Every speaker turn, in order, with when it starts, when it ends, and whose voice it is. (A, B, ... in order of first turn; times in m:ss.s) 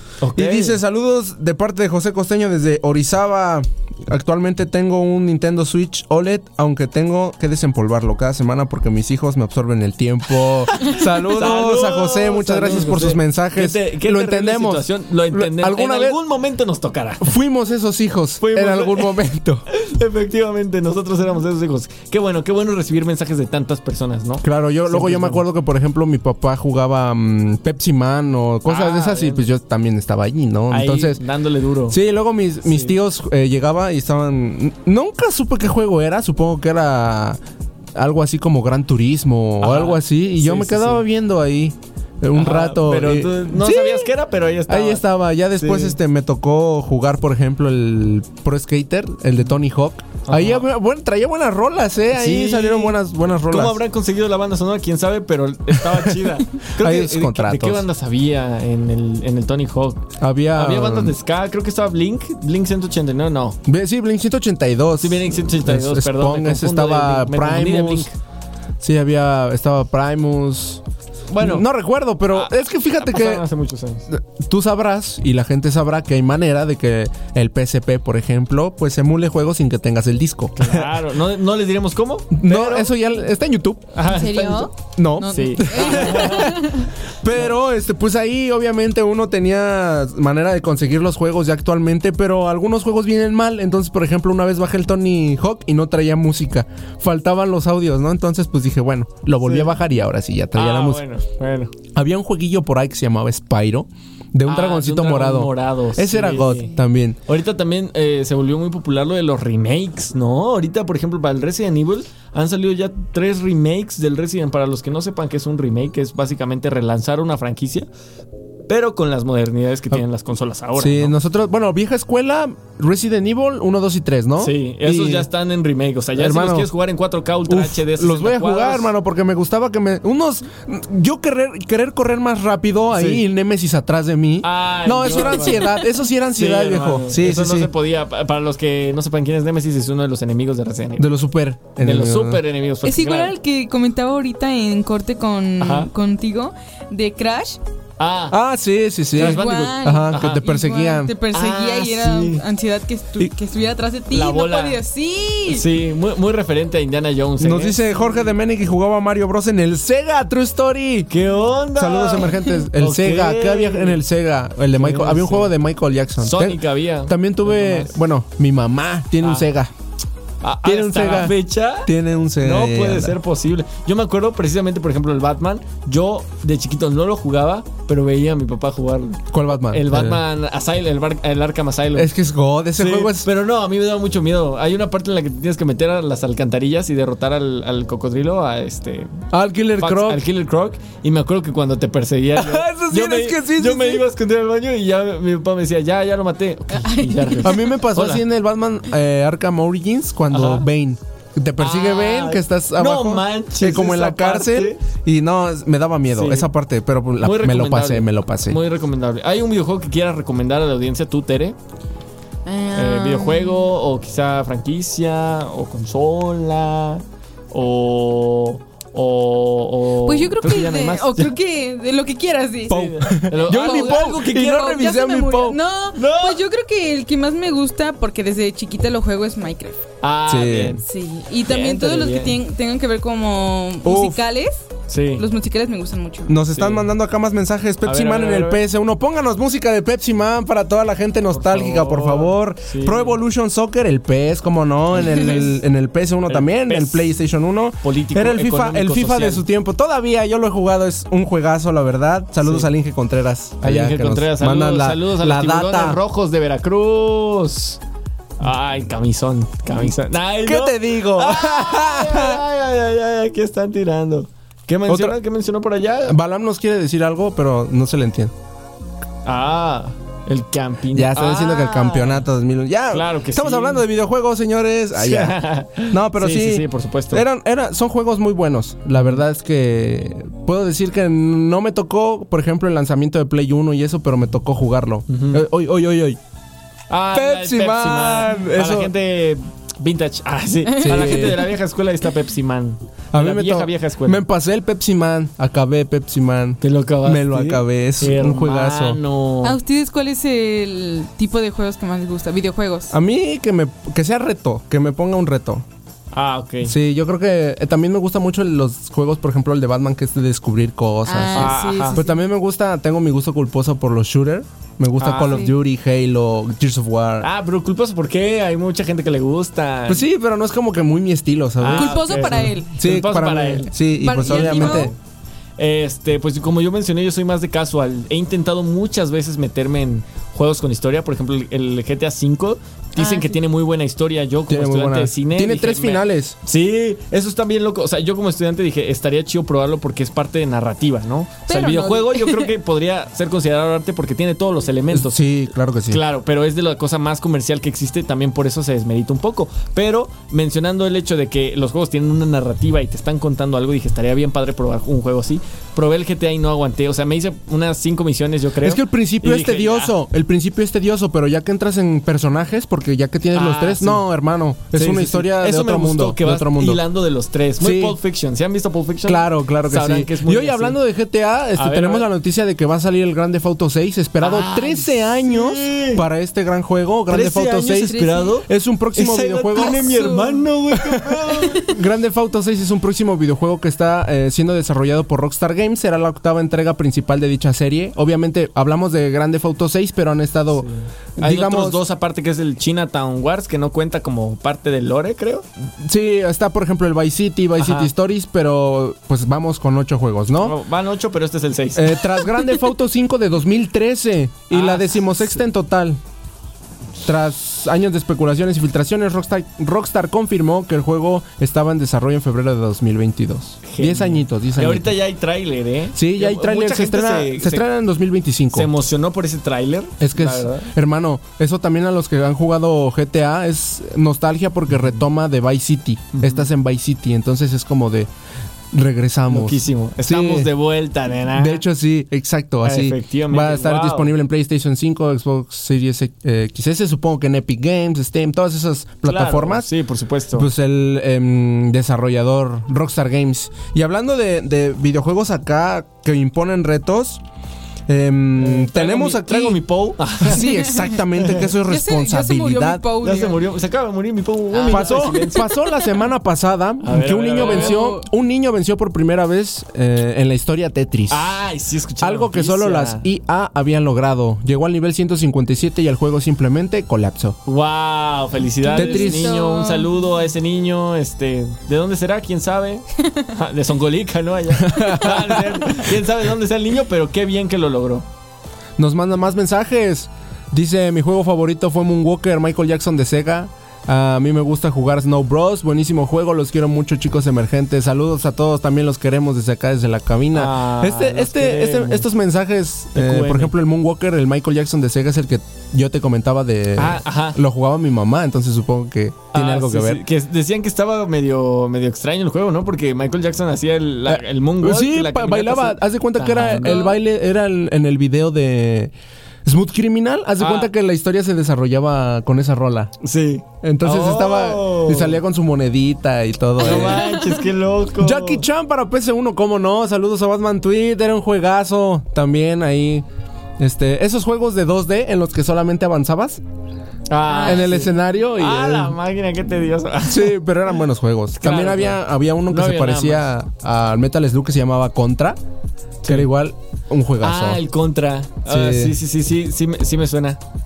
0:00.2-0:00.8 A
0:00.3-0:16.2 B
0:10.7-0:17.4 A
0:17.2-0:19.6 B
0:18.4-0:19.2 A
0:19.7-0:25.4 A
0:24.4-0:31.2 B
0:28.6-0:29.5 A
0:30.7-0:32.0 A
0:31.9-0:37.4 B
0:32.6-0:32.9 A
0:37.9-0:44.1 B
0:39.6-0:41.0 A
0:42.3-0:46.0 A
0:44.7-0:53.8 B
0:50.2-0:50.7 A
0:52.1-1:03.6 A
0:55.9-0:56.1 B
0:56.8-0:57.8 B
1:00.2-1:01.2 B
1:03.6-1:08.1 B
1:05.0-1:08.2 A
1:08.8-1:10.8 B
1:11.3-1:11.7 A
1:11.4-1:13.4 B
1:12.3-1:14.1 A
1:14.1-1:20.9 B
1:20.6-1:22.9 A
1:22.3-1:23.9 B
1:23.9-1:24.7 A
1:24.0-1:26.9 C
1:24.8-1:41.0 B
1:25.2-1:26.8 A
1:39.4-1:39.8 A
1:40.5-1:41.7 A
1:41.9-1:47.2 B
1:44.5-1:46.7 A
1:47.2-1:57.9 A
1:58.7-2:01.2 A
2:00.8-2:05.3 B
2:04.4-2:08.9 A
2:06.2-2:06.7 B
2:07.4-2:17.7 B
2:12.9-2:13.2 A
2:14.4-2:15.7 A
2:15.1-2:15.8 C
2:16.3-2:21.1 A
2:21.0-2:22.4 B
2:21.8-2:23.3 A
2:22.8-2:27.6 C
2:25.6-2:25.9 A
2:28.0-2:28.4 A
2:28.3-2:31.1 B
2:29.1-2:30.4 A
2:29.2-2:35.7 C
2:31.3-2:32.4 A
2:34.1-2:34.8 A
2:35.5-2:37.8 A
2:37.4-2:41.1 B
2:41.1-2:44.0 A
2:41.7-2:49.7 B
2:44.7-2:45.5 A
2:46.2-2:48.0 A
2:49.2-2:49.5 A
2:50.4-3:02.1 A
2:50.6-2:53.2 B
2:59.3-3:00.2 B
3:01.9-3:03.3 B
3:02.8-3:09.2 A
3:09.3-3:10.2 B
3:09.8-3:18.2 A
3:12.3-3:14.0 B
3:16.7-3:17.7 C
3:17.4-3:28.6 B
3:20.3-3:20.7 A
3:21.6-3:24.8 A
3:26.1-3:26.5 A
3:27.2-3:31.6 A
3:32.4-3:33.7 C
3:32.7-3:41.3 A
3:40.0-3:49.8 C
3:42.7-3:44.8 A
3:42.7-3:45.6 B
3:45.9-3:46.4 A
3:50.0-3:50.8 A
3:50.3-3:50.8 B
3:50.8-3:56.3 C
3:51.4-3:52.4 A
3:53.8-3:54.2 B
3:54.9-3:55.2 A
3:56.3-4:16.0 B
3:56.5-3:56.9 A
3:57.8-3:58.6 A
4:01.3-4:03.2 A
4:04.9-4:05.4 A
4:06.3-4:07.0 A
4:07.8-4:09.4 A
4:12.4-4:12.7 A
4:13.6-4:17.8 A
4:18.4-4:26.2 A
4:20.4-4:22.4 B
4:24.9-4:25.2 B
4:26.1-4:28.3 B
4:29.2-4:32.2 A
4:30.9-4:46.2 B
4:32.9-4:33.8 A
4:34.9-4:37.2 A
4:45.1-4:45.4 A
4:46.9-4:54.2 A
4:47.1-4:48.9 B
4:50.7-4:51.5 C
4:50.8-4:51.5 B
4:53.1-4:59.0 B
4:56.6-4:59.6 A
4:59.4-5:02.9 C
5:02.9-5:05.6 B
5:06.1-5:06.7 A
5:06.6-5:17.3 B
5:11.0-5:12.2 C
5:11.3-5:12.0 A
5:15.0-5:15.4 A
5:15.2-5:15.5 C
5:17.2-5:20.0 A
5:19.9-5:24.9 B
5:21.6-5:25.0 A
5:21.7-5:22.7 C
5:24.0-5:24.9 C
5:25.6-5:45.2 A
5:33.0-5:33.4 C
5:34.5-5:36.4 B
5:41.5-5:42.5 C
5:44.9-5:46.0 B
5:45.9-6:00.0 A
5:58.6-6:06.8 B
6:03.3-6:04.0 A
6:04.7-6:10.8 A
6:07.6-6:08.0 B
6:09.0-6:20.1 B
6:11.6-6:12.1 A
6:14.2-6:16.0 A
6:17.1-6:21.7 A
6:17.8-6:18.4 C
6:19.6-6:20.4 C
6:20.7-6:31.8 B
6:21.3-6:21.7 C
6:30.5-6:35.4 A
6:35.8-6:40.6 B
6:37.6-6:37.9 A
6:40.4-6:42.2 A
6:41.7-6:46.0 B
6:44.5-6:45.4 A
6:47.0-6:54.9 B
6:53.6-6:57.6 A
6:55.9-6:58.7 B
6:58.5-7:00.7 A
7:00.0-7:08.1 B
7:06.1-7:06.5 A
7:08.7-7:10.5 B
7:09.3-7:11.6 A
7:11.3-7:19.7 B
7:12.6-7:14.1 A
7:19.0-7:20.5 A
7:20.4-7:27.2 B
7:27.9-7:32.8 B
7:28.4-7:30.5 A
7:30.3-7:33.4 C
7:31.2-7:31.5 A
7:33.0-7:35.5 A
7:34.5-7:36.0 C
7:34.6-7:41.3 B
7:36.8-7:37.8 A
7:37.4-7:38.0 C
7:41.1-7:43.0 A
7:42.0-7:47.4 B
7:47.4-7:58.0 A
7:48.6-7:50.1 C
7:48.8-7:49.4 B
7:54.6-7:55.8 B
7:58.8-8:20.0 B
8:10.3-8:12.1 A
8:13.0-8:13.6 A
8:16.8-8:17.4 A
8:19.3-8:26.9 A
8:24.1-8:28.9 B
8:26.5-8:27.0 C
8:29.4-8:32.9 B
8:30.4-8:30.7 A
8:33.0-8:35.2 A
8:33.6-8:37.2 B
8:36.6-8:38.5 A
8:36.7-8:37.3 C
8:38.0-8:43.0 B
8:43.6-8:46.4 B
8:47.1-8:50.4 A
8:47.2-8:47.9 C
8:47.4-8:49.0 B
8:50.1-8:55.4 B
8:51.4-8:53.3 A
8:56.0-8:56.3 A
8:56.1-8:57.6 B
8:57.2-9:00.4 A
8:58.4-8:59.0 B